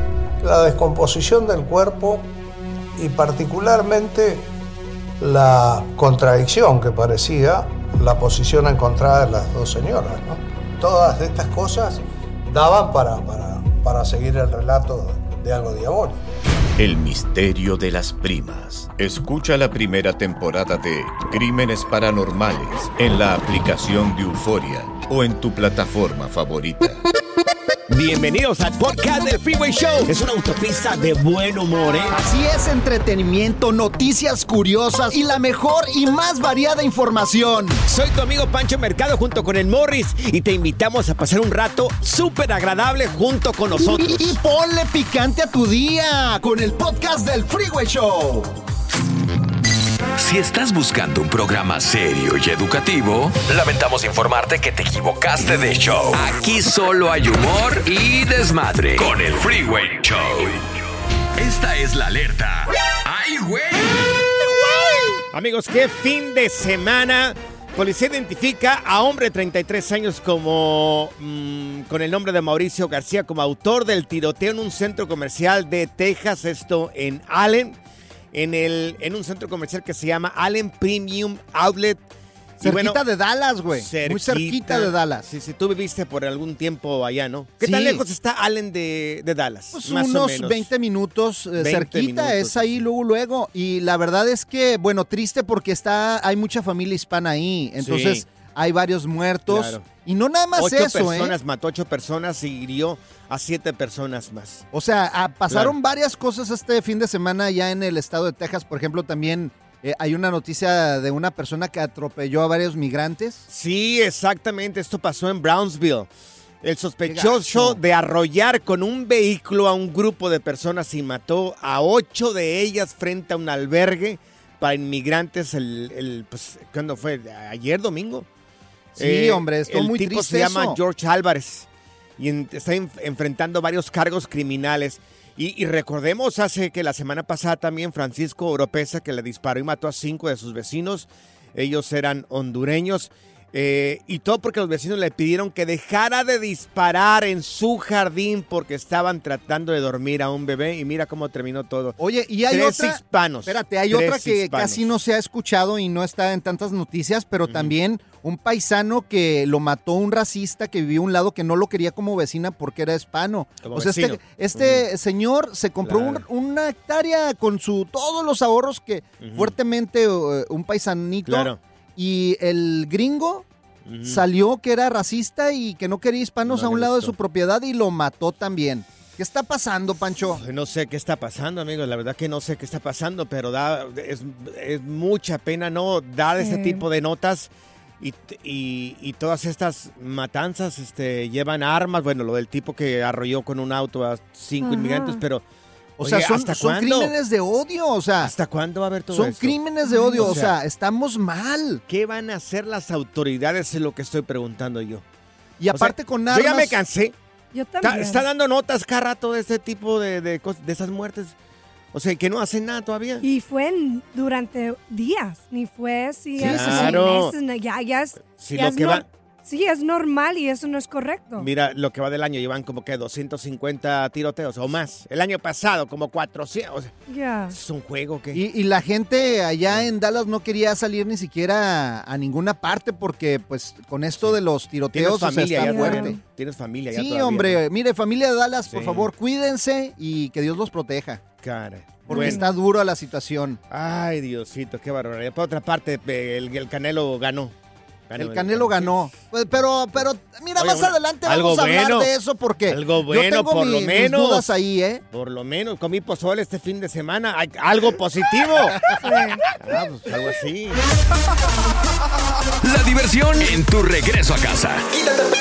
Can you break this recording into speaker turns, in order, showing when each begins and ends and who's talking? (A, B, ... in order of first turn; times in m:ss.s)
0:00.4-0:02.3 A
0:03.0-0:04.5 A
0:05.2-0:16.2 A
0:16.8-0:27.0 B
0:27.9-0:32.1 C
0:32.1-0:37.8 D
0:37.9-0:44.3 C
0:43.7-0:48.5 D
0:50.2-1:00.6 E
1:01.4-1:04.2 E
1:04.6-1:05.1 D
1:05.3-1:17.8 C
1:18.3-1:22.0 C
1:22.6-1:23.0 C
1:22.6-1:25.2 D
1:23.7-1:30.7 C
1:27.6-1:28.0 D
1:29.7-1:41.4 D
1:31.6-1:32.8 C
1:37.8-1:38.2 C
1:39.5-1:39.9 C
1:40.5-1:44.6 C
1:44.7-1:53.4 D
1:45.5-1:45.7 C
1:53.5-1:56.1 C
1:56.6-2:08.3 C
1:57.0-1:57.8 D
2:08.9-2:11.7 C
2:09.0-2:10.8 D
2:12.2-2:32.0 C
2:32.0-2:53.4 D
2:32.5-2:34.9 C
2:37.5-2:37.7 C
2:43.6-2:44.8 C
2:45.8-2:46.2 C
2:49.2-2:49.5 C
2:51.2-2:51.6 C
2:53.8-2:54.2 C
2:54.0-3:00.4 D
2:56.4-2:57.1 C
3:00.4-3:15.4 C
3:06.4-3:06.8 F
3:14.6-3:15.2 F
3:16.0-3:18.3 D
3:16.0-3:17.1 C
3:18.2-3:19.6 C
3:19.1-3:21.8 D
3:19.8-3:20.4 F
3:20.1-3:20.5 C
3:21.9-3:25.0 C
3:25.6-3:26.8 D
3:25.7-3:27.1 C
3:27.5-3:28.3 F
3:27.8-3:31.3 C
3:31.9-3:33.2 C
3:33.2-3:41.5 F
3:36.4-3:37.2 D
3:36.4-3:37.4 C
3:38.2-3:39.0 C
3:41.4-3:46.9 C
3:47.1-3:47.6 F
3:47.5-3:48.4 C
3:48.3-3:56.2 D
3:54.9-3:57.6 C
3:55.6-3:56.2 F
3:56.9-4:01.2 D
3:58.7-3:59.1 C
4:01.4-4:02.4 C
4:02.1-4:03.6 D
4:02.1-4:02.5 F
4:03.7-4:07.5 C
4:08.1-4:09.1 C
4:08.2-4:15.0 D
4:10.6-4:12.1 C
4:12.7-4:14.5 C
4:15.1-4:19.0 C
4:18.9-4:19.4 F
4:19.5-4:20.8 C
4:22.6-4:24.9 E